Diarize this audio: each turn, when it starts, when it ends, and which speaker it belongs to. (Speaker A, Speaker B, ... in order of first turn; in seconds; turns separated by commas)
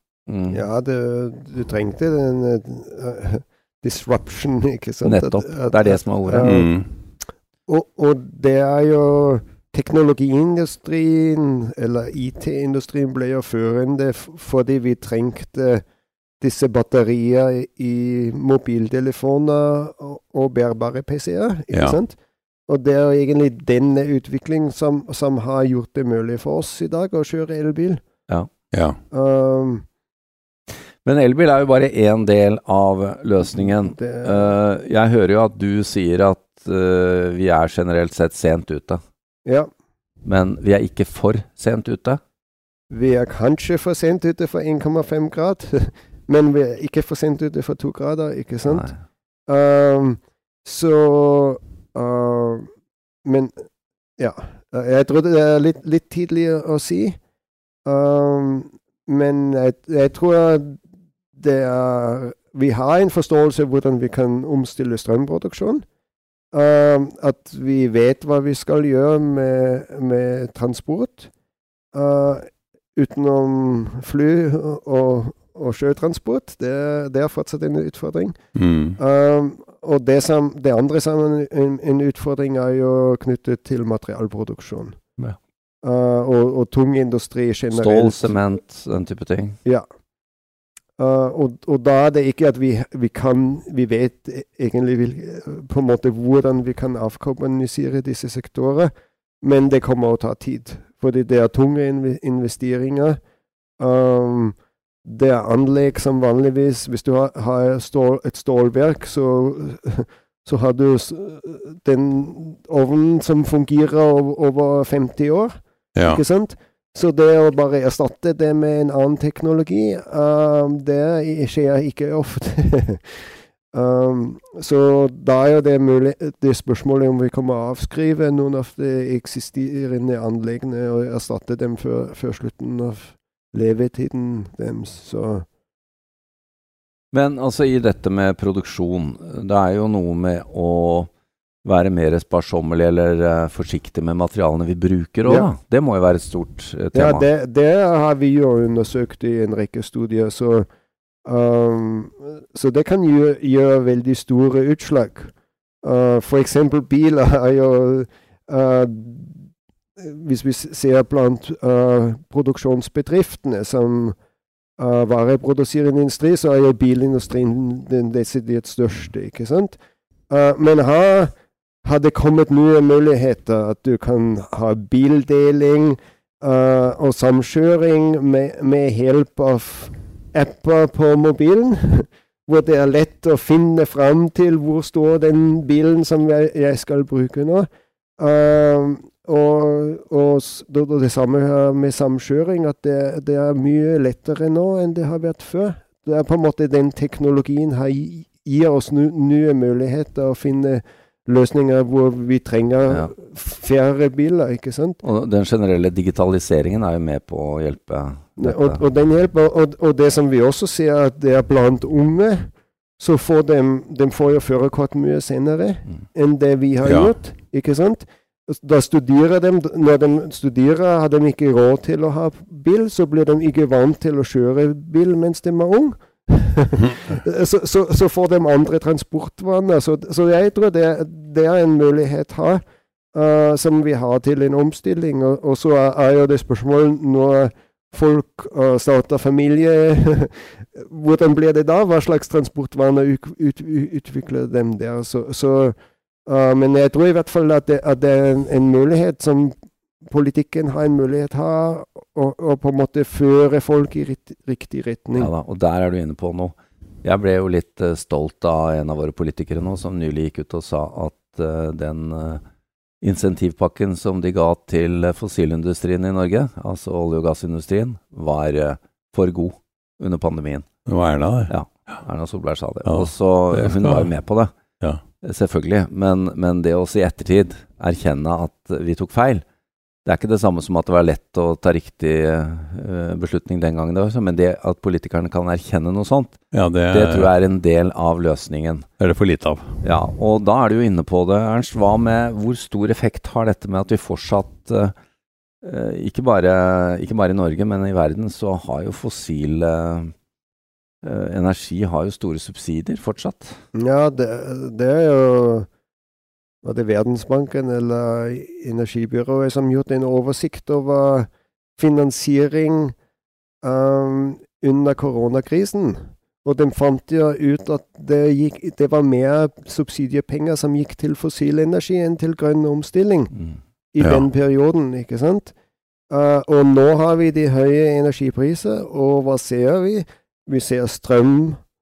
Speaker A: 0.3-0.6, Speaker B: 0.5-6.7, Speaker A: 5.0-6.5, Speaker C: 6.4-6.9, Speaker B: 7.7-15.8, Speaker B: 16.4-22.1, Speaker C: 21.7-22.0, Speaker B: 22.7-28.0, Speaker B: 29.1-29.8, Speaker A: 31.0-39.0, Speaker B: 33.7-34.5, Speaker A: 40.2-42.2, Speaker B: 42.9-48.9, Speaker A: 48.7-49.0, Speaker B: 49.5-52.7, Speaker B: 53.2-53.6, Speaker B: 54.2-57.2, Speaker B: 57.9-60.8, Speaker B: 61.3-65.8, Speaker B: 66.5-71.3, Speaker B: 71.9-78.3, Speaker C: 78.5-79.0, Speaker B: 79.0-85.0, Speaker B: 85.8-88.4, Speaker A: 87.7-89.6, Speaker B: 91.0-103.2, Speaker B: 103.8-135.4, Speaker C: 116.0-116.2, Speaker A: 137.1-141.1, Speaker A: 141.6-147.3, Speaker B: 145.2-145.5, Speaker B: 146.9-150.7, Speaker B: 151.2-159.4, Speaker B: 160.0-164.2, Speaker B: 164.8-169.8, Speaker B: 170.3-171.3, Speaker B: 171.8-187.7, Speaker B: 188.2-205.0, Speaker A: 205.0-208.8, Speaker B: 208.4-232.6, Speaker C: 216.8-217.1, Speaker B: 233.1-245.7, Speaker B: 246.2-249.5, Speaker B: 250.1-255.3, Speaker A: 255.1-262.4, Speaker A: 263.0-270.7, Speaker C: 270.9-271.5, Speaker A: 271.5-274.5, Speaker C: 272.8-274.1, Speaker A: 275.2-279.4, Speaker A: 280.0-288.9, Speaker C: 286.5-287.3, Speaker C: 289.0-289.6, Speaker A: 289.8-294.9, Speaker A: 295.6-300.1, Speaker A: 301.0-303.6, Speaker B: 303.7-305.7, Speaker B: 306.6-312.9, Speaker B: 313.6-323.3, Speaker B: 323.9-325.5, Speaker B: 326.1-331.6